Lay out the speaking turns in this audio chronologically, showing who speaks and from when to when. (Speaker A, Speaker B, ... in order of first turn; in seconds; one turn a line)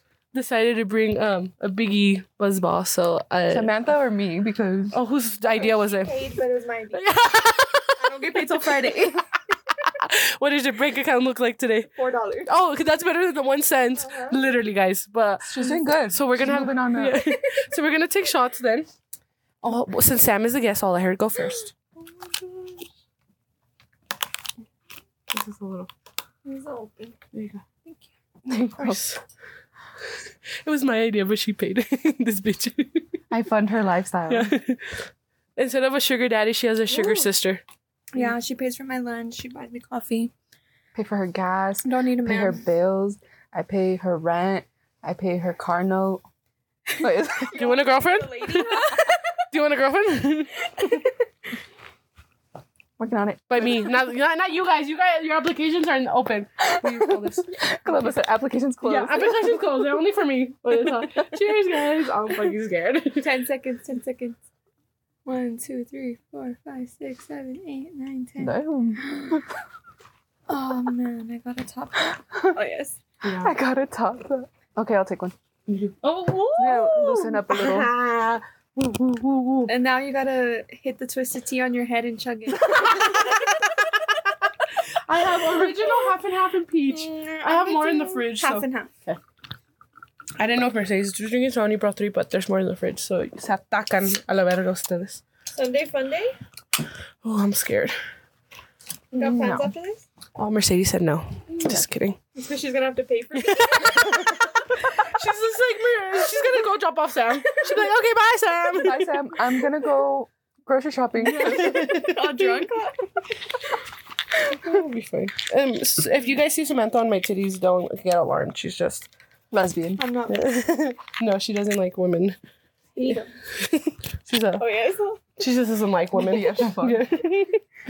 Speaker A: 0.3-3.7
Speaker B: 3.5-4.9
Speaker A: 4.9-6.3
Speaker C: 5.5-7.0
Speaker A: 6.9-8.6
Speaker C: 8.0-9.2
Speaker B: 8.8-9.1
Speaker A: 9.9-11.9
Speaker C: 11.9-12.5
Speaker A: 12.4-18.9
Speaker C: 14.0-14.4
Speaker B: 15.4-17.2
Speaker A: 19.6-21.7
Speaker C: 21.5-22.8
Speaker A: 25.3-25.9
Speaker C: 26.4-27.2
Speaker A: 27.3-27.6
Speaker B: 28.4-29.0
Speaker A: 28.8-29.2
Speaker A: 30.6-33.0
Speaker B: 33.3-34.5
Speaker A: 34.3-35.0
Speaker A: 35.5-37.6
Speaker C: 36.9-37.3
Speaker C: 38.1-40.3
Speaker B: 40.9-46.2
Speaker C: 41.8-42.6
Speaker B: 46.9-47.5
Speaker C: 47.4-49.4
Speaker A: 47.5-50.7
Speaker C: 50.7-51.1
Speaker B: 53.0-54.0
Speaker A: 53.5-58.1
Speaker B: 56.8-59.7
Speaker A: 58.8-63.3
Speaker B: 60.9-61.3
Speaker C: 63.2-64.4
Speaker C: 65.2-69.4
Speaker B: 68.4-69.5
Speaker C: 70.5-73.0
Speaker B: 72.3-72.6
Speaker A: 73.2-73.5
Speaker B: 73.4-75.9
Speaker A: 76.0-79.7
Speaker B: 76.5-77.9
Speaker C: 79.7-83.2
Speaker A: 82.7-83.2
Speaker A: 85.1-89.2
Speaker C: 85.5-86.1
Speaker C: 86.9-88.9
Speaker A: 90.4-95.2
Speaker C: 95.5-96.3
Speaker A: 97.2-98.0
Speaker C: 99.1-100.0
Speaker B: 99.2-99.7
Speaker A: 100.4-102.2
Speaker C: 102.3-104.4
Speaker A: 103.3-109.2
Speaker B: 108.8-112.0
Speaker C: 111.2-113.1
Speaker A: 111.2-112.6
Speaker A: 114.5-119.1
Speaker B: 119.5-120.0
Speaker C: 120.0-120.6
Speaker A: 120.3-122.4
Speaker C: 123.0-123.3
Speaker A: 123.0-124.6
Speaker C: 124.6-125.2
Speaker A: 125.4-127.6
Speaker B: 126.1-127.0